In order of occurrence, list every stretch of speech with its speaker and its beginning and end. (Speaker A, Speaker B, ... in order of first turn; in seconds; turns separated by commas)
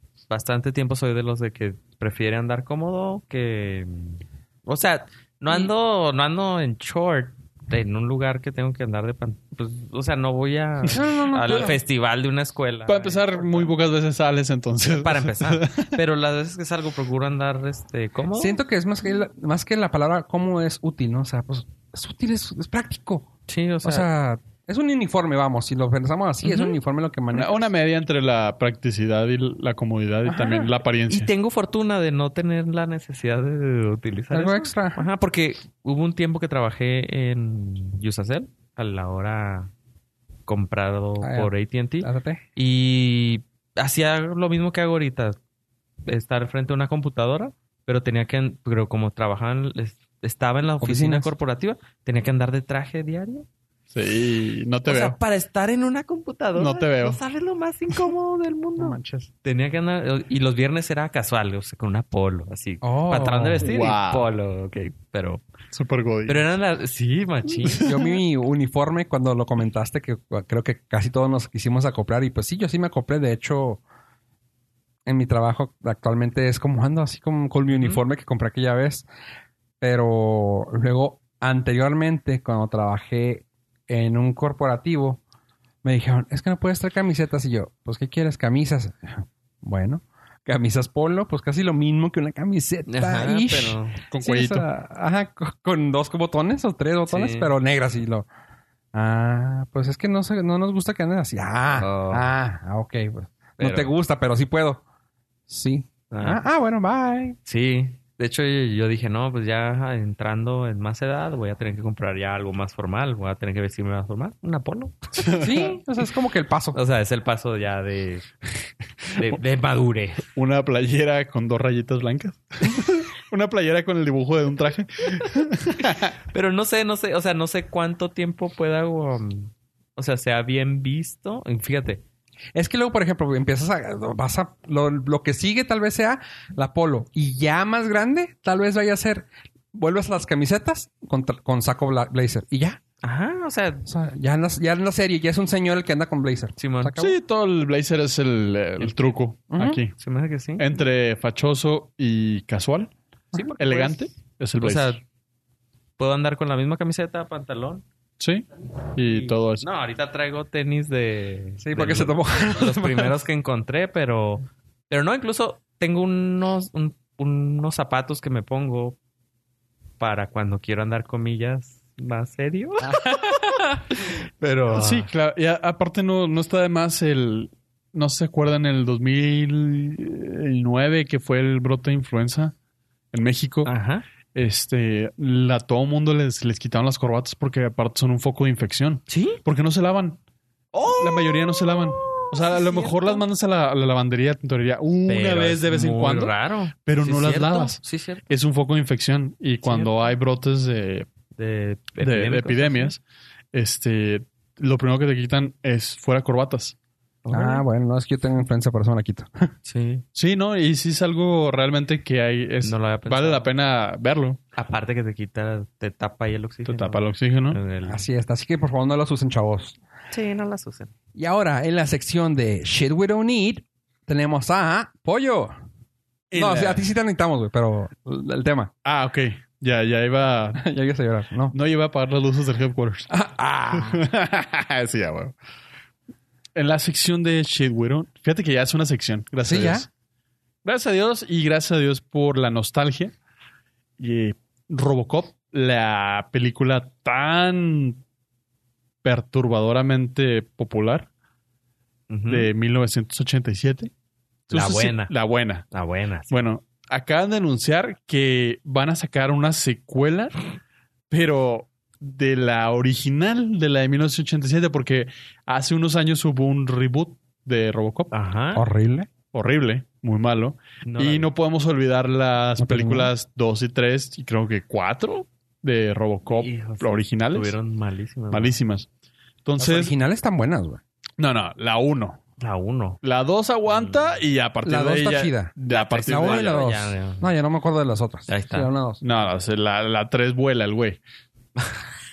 Speaker A: 0.3-13.7, Speaker B: 10.9-11.8, Speaker C: 12.9-16.0, Speaker A: 14.9-18.6, Speaker B: 18.4-23.3, Speaker A: 23.5-24.1, Speaker B: 23.8-27.7, Speaker A: 26.4-26.7, Speaker C: 27.3-31.3, Speaker B: 30.2-30.7, Speaker A: 31.1-39.7, Speaker B: 34.3-35.0, Speaker A: 40.5-45.4, Speaker B: 41.2-42.4, Speaker A: 46.0-53.5, Speaker B: 50.8-51.3, Speaker C: 53.9-55.1, Speaker A: 54.8-65.4, Speaker C: 56.5-57.2, Speaker B: 58.8-59.3, Speaker B: 62.8-63.7, Speaker C: 63.6-64.3, Speaker C: 65.7-66.4, Speaker A: 66.2-67.9, Speaker C: 67.6-68.0, Speaker B: 67.8-73.8, Speaker B: 75.0-79.0, Speaker A: 77.8-78.0, Speaker B: 79.8-85.2, Speaker B: 85.8-98.3, Speaker A: 92.9-94.0, Speaker C: 94.1-94.7, Speaker A: 97.1-97.5, Speaker B: 98.9-104.8, Speaker A: 101.8-102.3, Speaker A: 103.6-103.9, Speaker B: 105.5-107.4, Speaker A: 106.1-106.4, Speaker A: 107.5-115.4, Speaker C: 115.2-115.7, Speaker B: 115.4-116.8, Speaker A: 116.7-118.3, Speaker A: 119.1-120.2, Speaker C: 120.3-126.1, Speaker A: 126.3-132.0, Speaker B: 132.5-142.8, Speaker A: 143.0-143.8, Speaker B: 143.8-147.2, Speaker A: 146.6-146.9, Speaker C: 147.0-150.0, Speaker A: 148.8-149.2, Speaker B: 149.5-149.8, Speaker A: 150.0-150.7, Speaker C: 150.6-152.9, Speaker A: 153.3-154.0, Speaker C: 153.6-155.0, Speaker A: 154.6-155.0, Speaker A: 156.0-157.8, Speaker C: 158.2-158.4, Speaker C: 158.9-159.6, Speaker A: 159.1-169.0, Speaker B: 161.6-163.2, Speaker A: 170.0-175.1, Speaker C: 174.7-182.5, Speaker C: 183.1-183.7, Speaker A: 183.6-184.0, Speaker C: 184.3-190.2, Speaker A: 189.1-189.4, Speaker A: 190.7-193.2, Speaker C: 191.0-201.1, Speaker A: 195.1-198.2, Speaker A: 199.6-200.0, Speaker A: 201.3-202.9, Speaker C: 202.0-203.0, Speaker C: 203.5-206.7, Speaker A: 207.2-207.6, Speaker B: 207.3-209.5, Speaker A: 209.6-210.0, Speaker C: 210.1-214.4, Speaker A: 212.6-213.5, Speaker A: 214.5-218.0, Speaker C: 216.7-217.6, Speaker B: 217.8-219.8, Speaker A: 220.1-220.9, Speaker B: 221.1-225.5, Speaker C: 226.3-226.8, Speaker B: 226.3-228.7, Speaker C: 228.8-230.6, Speaker B: 230.6-231.6, Speaker C: 231.5-233.1, Speaker B: 233.1-234.0, Speaker C: 233.7-235.3, Speaker C: 236.5-239.9, Speaker B: 239.4-239.9, Speaker C: 240.6-243.1, Speaker C: 244.0-248.0, Speaker C: 249.0-251.1, Speaker A: 252.1-252.5, Speaker C: 252.3-253.9, Speaker A: 254.5-255.1, Speaker C: 254.5-255.6, Speaker A: 255.7-256.4, Speaker C: 256.3-260.4, Speaker C: 261.1-268.1, Speaker A: 268.1-268.6, Speaker B: 268.5-269.1, Speaker C: 269.3-277.6, Speaker A: 270.8-271.3, Speaker B: 272.6-273.1, Speaker A: 276.3-278.6, Speaker C: 278.3-278.9, Speaker C: 279.4-279.9, Speaker B: 279.6-280.8, Speaker C: 281.2-282.2, Speaker A: 282.4-283.0, Speaker C: 283.0-286.6, Speaker A: 283.7-284.2, Speaker B: 284.6-289.0, Speaker A: 285.7-287.3, Speaker A: 288.3-288.7, Speaker C: 289.0-291.0